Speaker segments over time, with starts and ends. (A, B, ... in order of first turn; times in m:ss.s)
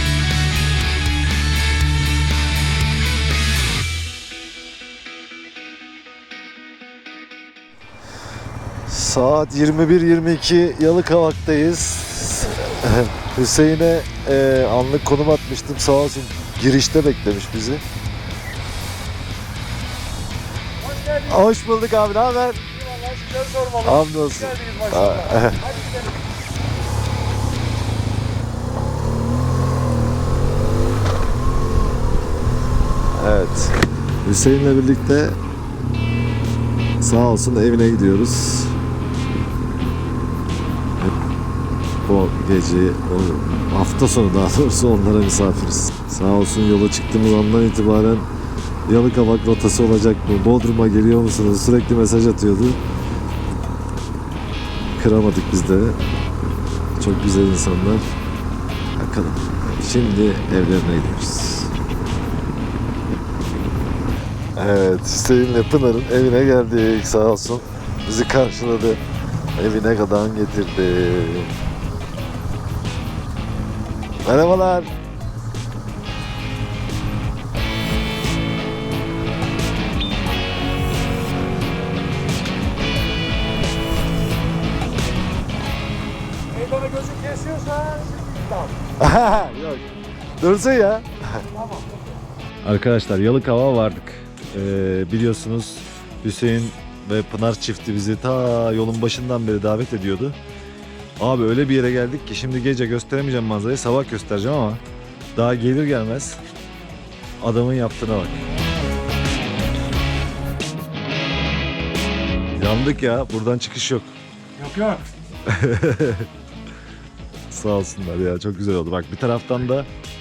0:08.9-0:17.8 A
0:20.8-0:21.4 B
0:21.2-0:22.6 A
0:22.8-0:26.1 B
0:23.8-0:25.7 A
0:33.1-0:35.4 A
0:37.0-0:38.8 A
0:42.0-0:48.3 A
0:48.8-0:52.8 A
0:55.0-0:56.0 A
0:57.0-0:58.0 A
0:59.0-1:01.7 A
1:04.5-1:09.0 A
1:09.6-1:11.5 A
1:14.2-1:14.9 A
1:26.5-1:28.7 B
1:29.0-1:29.8 A
1:30.4-1:31.4 A
1:31.6-1:31.8 B
1:32.6-1:40.4 A
1:41.2-1:44.8 A
1:45.3-1:46.4 A
1:47.4-1:48.4 A
1:52.6-1:54.1 A
1:54.6-1:55.0 B
1:55.4-1:56.3 A
1:57.5-1:59.9 A